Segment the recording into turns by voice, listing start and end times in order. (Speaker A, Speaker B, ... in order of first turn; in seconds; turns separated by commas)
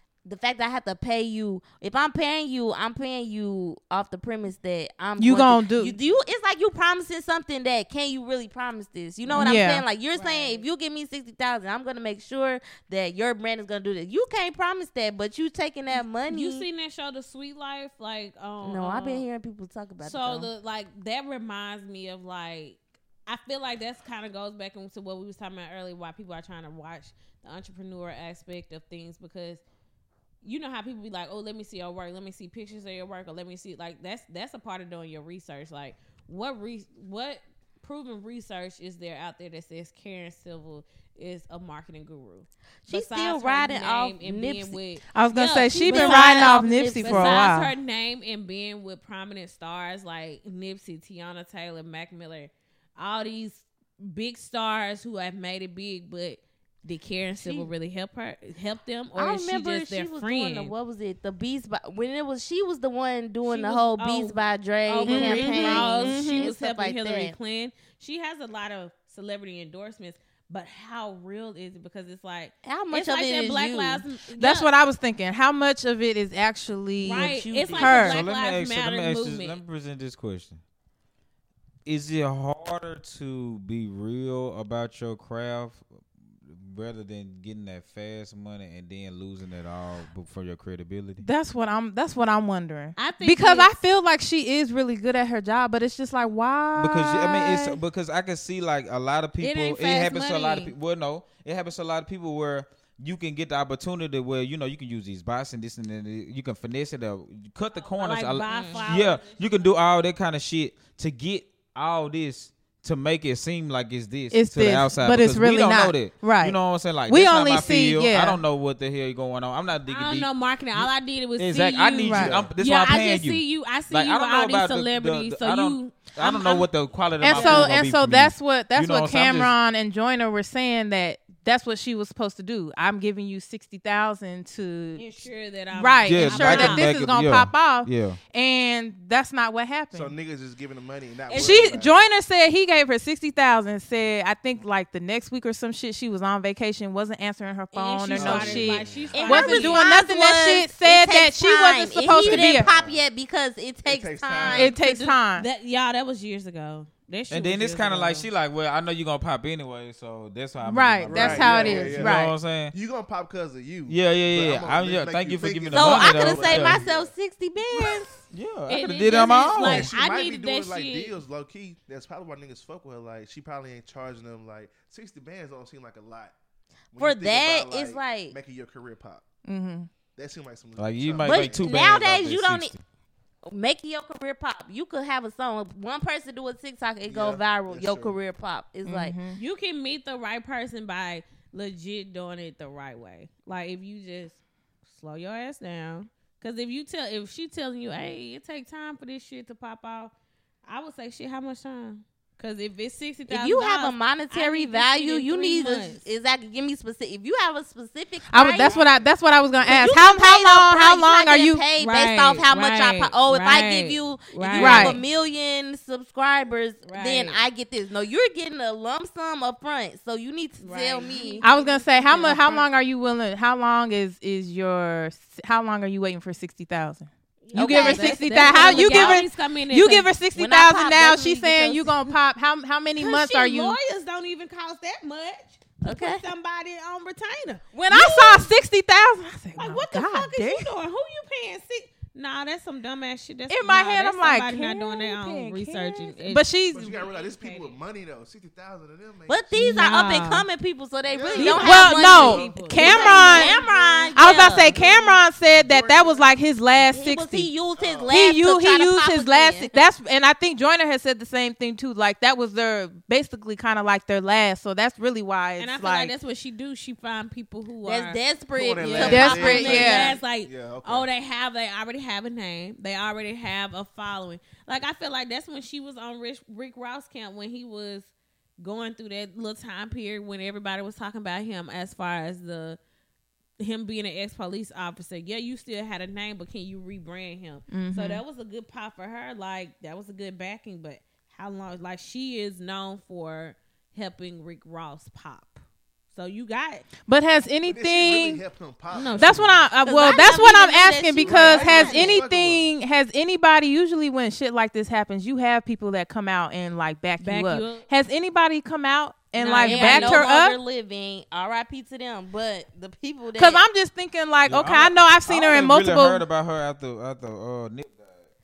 Speaker A: 0.2-16.7, Speaker B: 5.2-6.0, Speaker B: 9.3-9.9, Speaker C: 9.3-10.7, Speaker C: 16.3-19.2, Speaker A: 18.6-20.5, Speaker C: 20.0-29.6, Speaker C: 30.4-60.7, Speaker A: 42.9-44.8, Speaker B: 45.1-47.7, Speaker A: 45.6-47.5, Speaker A: 57.3-57.7, Speaker A: 59.2-67.3, Speaker C: 63.5-74.7, Speaker B: 65.1-66.5, Speaker A: 72.7-74.0, Speaker B: 74.4-78.2, Speaker C: 77.0-79.6, Speaker A: 77.1-78.1, Speaker D: 78.0-80.6, Speaker D: 81.8-85.8, Speaker D: 86.4-91.3, Speaker B: 91.2-97.8, Speaker C: 93.0-93.7, Speaker D: 96.8-129.5, Speaker C: 99.4-100.7, Speaker C: 107.7-109.7, Speaker A: 108.5-108.9, Speaker B: 114.3-118.4, Speaker C: 119.8-126.7, Speaker B: 122.0-122.4, Speaker E: 122.1-122.5, Speaker B: 127.2-135.1, Speaker C: 127.2-127.8, Speaker C: 135.0-136.9, Speaker B: 135.7-140.1, Speaker D: 136.0-138.2, Speaker E: 139.9-141.9, Speaker C: 141.3-141.7, Speaker B: 141.3-152.7, Speaker C: 147.7-149.9, Speaker E: 148.2-149.3, Speaker A: 149.1-154.7, Speaker E: 152.1-153.0, Speaker E: 153.9-154.8, Speaker C: 154.5-158.3, Speaker B: 154.5-155.5, Speaker D: 157.3-162.7, Speaker B: 160.6-162.3, Speaker E: 161.1-167.1, Speaker D: 163.9-166.8, Speaker A: 165.7-168.1, Speaker D: 168.3-169.9, Speaker C: 168.7-171.2, Speaker E: 169.5-176.3, Speaker E: 176.9-179.2, Speaker A: 177.0-178.4, Speaker B: 179.5-179.9, Speaker E: 180.1-182.1, Speaker D: 180.8-182.8, Speaker A: 181.2-182.7, Speaker A: 183.4-189.2, Speaker E: 187.1-188.2, Speaker B: 188.8-189.4, Speaker C: 189.3-200.1, Speaker C: 200.7-206.1, Speaker A: 203.3-208.8, Speaker B: 208.3-211.7, Speaker C: 208.6-209.1, Speaker E: 209.6-209.9, Speaker A: 209.7-221.5, Speaker C: 211.8-215.0, Speaker B: 214.6-215.0, Speaker C: 216.8-217.4, Speaker C: 220.6-222.6, Speaker B: 221.4-233.8, Speaker A: 222.1-222.7, Speaker C: 227.4-230.1, Speaker A: 227.5-229.2, Speaker A: 230.3-232.0, Speaker C: 233.0-237.7, Speaker A: 235.8-236.2, Speaker A: 237.7-238.5, Speaker B: 237.9-240.7, Speaker C: 239.6-247.8, Speaker B: 243.5-246.9, Speaker E: 246.7-249.6, Speaker A: 249.3-254.8, Speaker C: 249.6-250.4, Speaker B: 249.6-250.4, Speaker E: 251.1-253.6, Speaker C: 251.3-254.2, Speaker B: 251.4-253.6, Speaker B: 254.1-257.5, Speaker E: 254.4-256.3, Speaker A: 256.8-259.8, Speaker E: 257.8-258.1, Speaker B: 258.1-266.1, Speaker C: 265.6-268.2, Speaker A: 267.9-270.1, Speaker E: 268.5-271.1, Speaker C: 268.8-282.8, Speaker B: 268.8-270.2, Speaker C: 283.6-295.6, Speaker B: 287.7-288.2, Speaker C: 296.1-296.9, Speaker B: 297.0-298.4, Speaker E: 297.6-299.6, Speaker C: 298.9-299.5, Speaker B: 299.2-310.6, Speaker A: 299.9-302.2, Speaker E: 301.2-302.7, Speaker C: 307.2-307.9, Speaker C: 309.4-310.3, Speaker A: 309.6-313.6, Speaker B: 313.4-316.2, Speaker D: 314.5-318.1